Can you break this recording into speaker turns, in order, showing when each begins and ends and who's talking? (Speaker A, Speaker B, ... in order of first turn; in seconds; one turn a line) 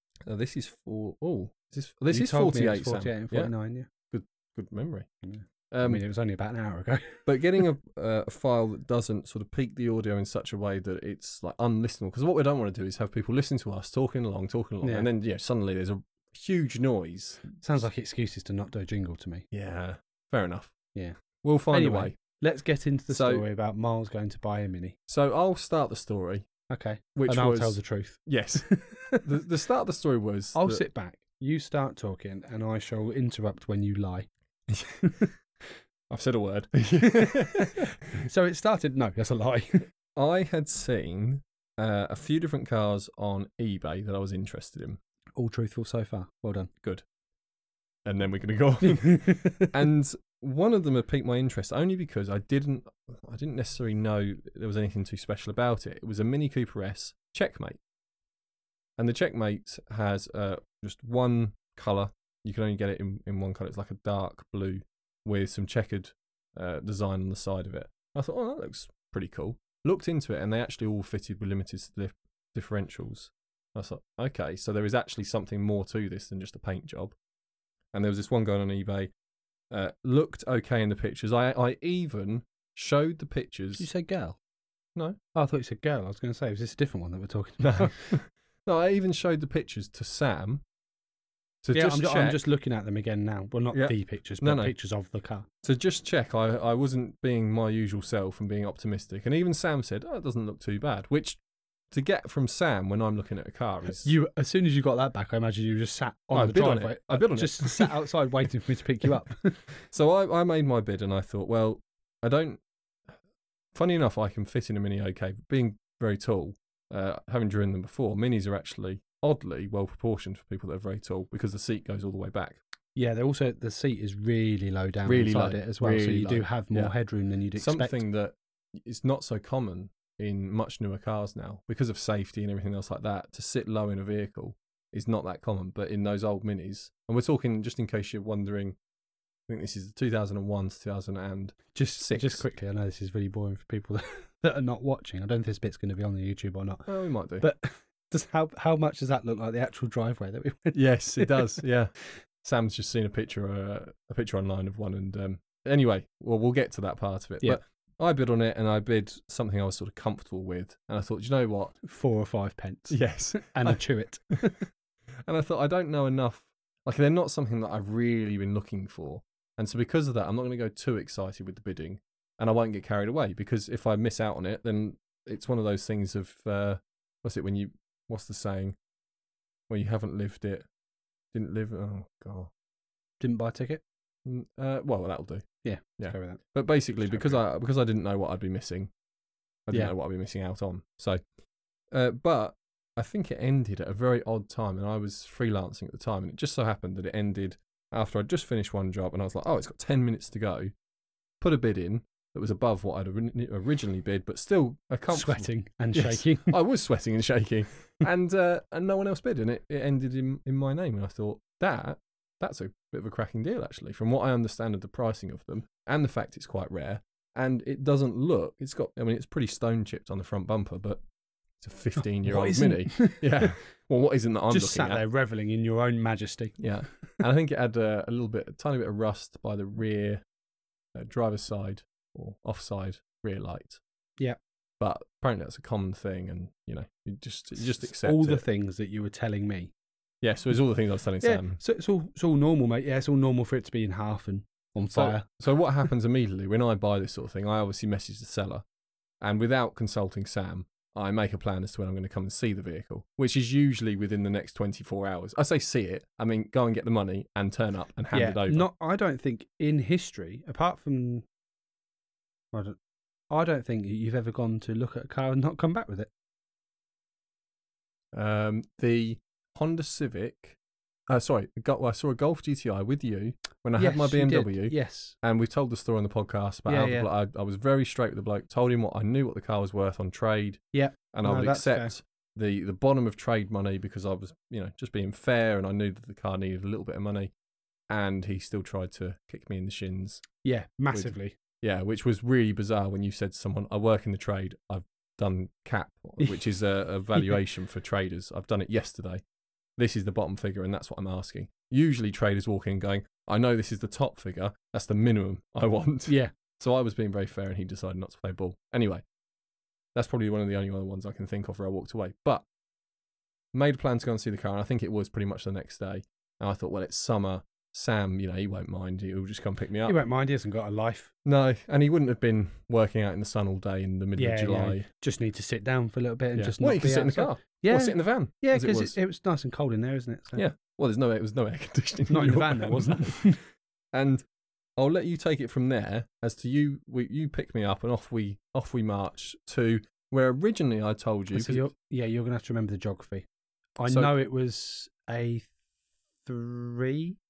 Speaker A: 0.2-3.5
Speaker B: 2.1-3.9
Speaker A: 4.1-5.1
Speaker B: 5.2-7.2
Speaker A: 5.7-6.0
Speaker A: 7.2-17.6
Speaker B: 14.8-15.1
Speaker B: 17.6-19.4
Speaker A: 19.5-20.7
Speaker A: 21.4-22.2
Speaker B: 21.7-25.0
Speaker A: 23.1-23.4
Speaker A: 25.1-26.5
Speaker B: 26.7-29.3
Speaker A: 27.1-28.7
Speaker A: 29.2-30.8
Speaker B: 30.5-35.3
Speaker A: 36.1-37.9
Speaker B: 37.0-39.9
Speaker A: 40.1-45.0
Speaker B: 45.4-46.7
Speaker A: 48.0-57.8
Speaker B: 48.8-49.7
Speaker A: 59.0-77.1
Speaker A: 77.9-79.1
Speaker A: 79.7-83.8
Speaker B: 83.8-84.4
Speaker B: 85.3-88.2
Speaker A: 87.6-90.6
Speaker A: 91.6-92.4
Speaker B: 91.7-95.5
Speaker A: 93.7-94.7
Speaker A: 95.6-101.4
Speaker A: 101.9-104.1
Speaker B: 103.8-109.6
Speaker A: 106.3-108.2
Speaker A: 109.9-112.6
Speaker A: 113.7-122.6
Speaker B: 123.0-128.0
Speaker A: 125.0-126.9
Speaker A: 127.5-138.8
Speaker A: 139.5-142.4
Speaker B: 141.7-146.9
Speaker A: 146.9-147.5
Speaker B: 147.4-151.6
Speaker A: 150.7-151.9
Speaker A: 152.4-161.8
Speaker B: 161.8-164.7
Speaker A: 162.9-163.8
Speaker A: 165.3-178.8
Speaker A: 179.7-180.7
Speaker A: 181.3-182.5
Speaker B: 183.2-183.8
Speaker A: 184.2-185.4
Speaker B: 185.6-186.4
Speaker A: 186.0-188.9
Speaker B: 187.1-187.4
Speaker A: 189.7-191.2
Speaker A: 191.9-200.7
Speaker A: 201.4-221.0
Speaker B: 205.1-206.5
Speaker A: 221.6-225.0
Speaker B: 222.2-223.6
Speaker B: 224.5-226.6
Speaker A: 226.6-230.2
Speaker A: 230.9-233.8
Speaker A: 234.8-238.4
Speaker B: 237.6-239.7
Speaker A: 240.2-241.6
Speaker B: 241.2-245.3
Speaker A: 244.9-248.6
Speaker A: 249.2-258.7
Speaker B: 258.1-261.2
Speaker B: 263.3-266.1
Speaker A: 268.1-270.6
Speaker A: 271.1-280.6
Speaker B: 273.8-275.1
Speaker B: 276.6-277.1
Speaker B: 280.7-281.9
Speaker A: 281.1-287.3
Speaker A: 287.9-290.2
Speaker B: 290.4-291.4
Speaker A: 290.9-299.2
Speaker A: 299.8-309.0
Speaker B: 306.1-306.3
Speaker A: 309.9-312.4
Speaker A: 313.5-320.0
Speaker B: 319.9-321.1
Speaker A: 321.2-324.9
Speaker B: 324.2-330.4
Speaker A: 326.4-328.9
Speaker A: 330.3-333.3
Speaker B: 332.1-333.4
Speaker A: 333.9-334.2
Speaker A: 334.8-341.6
Speaker B: 341.3-343.3
Speaker B: 343.8-345.5
Speaker A: 343.9-344.1
Speaker B: 346.2-347.2